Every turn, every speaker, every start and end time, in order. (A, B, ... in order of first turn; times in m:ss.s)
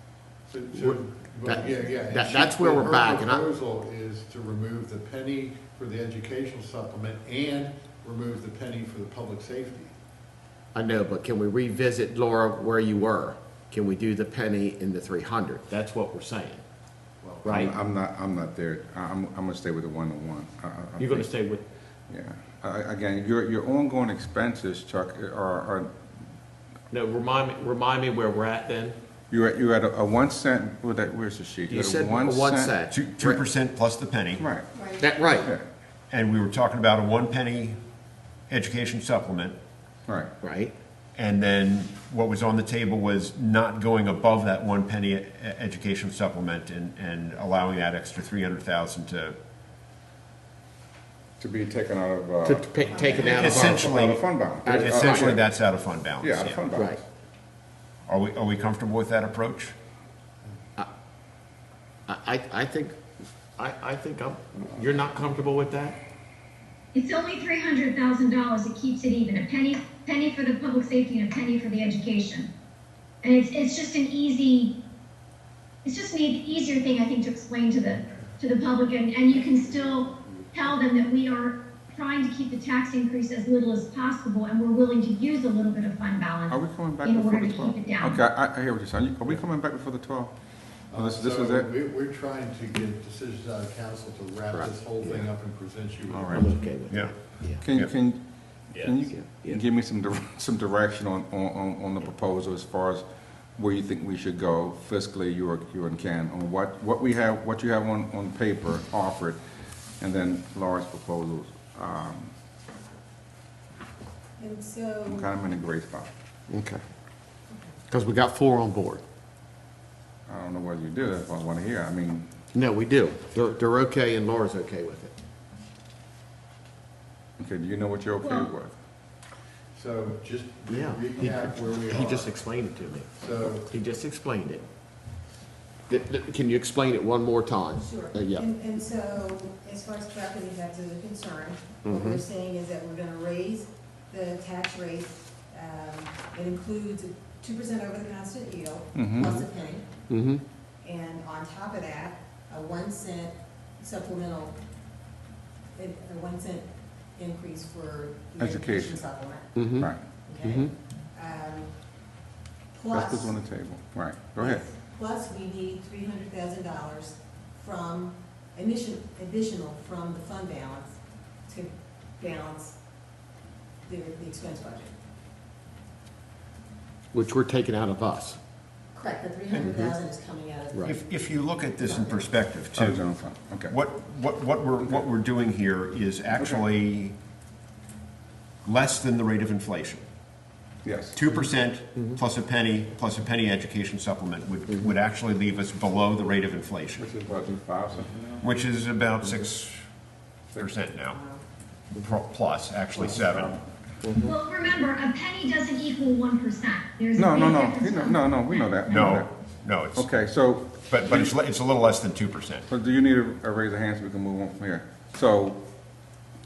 0:00.5-0:09.9 A
0:00.7-0:03.5 B
0:10.7-0:16.6 B
0:17.2-0:17.6 A
0:17.4-0:21.3 C
0:17.4-0:17.7 B
0:21.0-0:21.6 B
0:22.1-0:25.9 C
0:26.9-0:29.0 B
0:29.3-0:32.8 C
0:31.7-0:33.4 B
0:32.9-0:34.5 D
0:34.4-0:34.7 C
0:34.7-0:35.1 E
0:35.0-0:35.5 B
0:36.1-0:37.8 D
0:38.5-0:39.6 D
0:40.1-0:40.3 C
0:40.4-0:40.7 B
0:41.2-0:49.4 D
0:51.4-0:52.9 C
0:52.4-0:54.0 B
0:52.9-0:53.8 E
0:53.2-0:56.8 D
0:53.8-0:55.4 C
0:54.6-0:55.4 B
0:56.2-0:57.0 C
0:58.1-0:59.7 D
1:02.1-1:03.0 B
1:03.6-1:06.0 B
1:06.9-1:12.5 F
1:13.2-1:14.7 F
1:15.8-1:28.2 F
1:26.5-1:30.3 C
1:30.9-1:36.6 A
1:30.9-1:31.7 C
1:34.5-1:35.3 B
1:36.1-1:36.5 C
1:36.3-1:37.6 B
1:36.9-1:37.2 D
1:37.6-1:43.0 C
1:38.8-1:39.6 B
1:43.6-1:49.4 C
1:50.0-1:52.3 C
1:54.4-1:55.3 E
1:55.0-1:56.1 C
1:56.5-1:56.8 B
1:57.5-1:57.8 E
1:57.9-1:59.0 B
2:00.3-2:02.3 C
2:02.5-2:05.2 B
2:07.4-2:08.7 C
2:08.2-2:08.5 F
2:09.7-2:12.3 A
2:10.7-2:13.1 B
2:13.1-2:13.7 A
2:13.7-2:14.6 B
2:15.9-2:18.5 B
2:17.8-2:29.9 E
2:21.8-2:22.2 B
2:28.9-2:29.4 C
2:30.1-2:30.4 B
2:30.8-2:34.5 E
2:35.7-2:39.7 E
2:38.4-2:39.0 C
2:39.5-2:39.9 B
2:39.8-2:40.0 C
2:40.2-2:41.7 E
2:40.4-2:40.7 B
2:42.7-2:43.3 E
2:42.9-2:44.6 C
2:44.4-2:52.7 E
2:53.8-2:54.9 E
2:57.1-2:58.4 B
2:58.9-3:01.0 E
2:59.5-2:59.9 B
3:00.8-3:03.0 D
3:01.8-3:02.2 E
3:02.8-3:03.7 C
3:03.7-3:07.2 D
3:06.4-3:06.6 C
3:08.6-3:10.0 D
3:10.8-3:11.2 C
3:11.1-3:17.0 D
3:17.0-3:18.5 C
3:18.4-3:19.8 D
3:20.6-3:21.2 D
3:21.1-3:21.4 E
3:22.0-3:23.6 D
3:23.0-3:23.6 C
3:24.0-3:24.3 B
3:24.2-3:29.2 F
3:27.2-3:29.3 C
3:28.9-3:30.1 D
3:30.0-3:31.3 C
3:30.9-3:32.6 D
3:32.7-3:35.6 C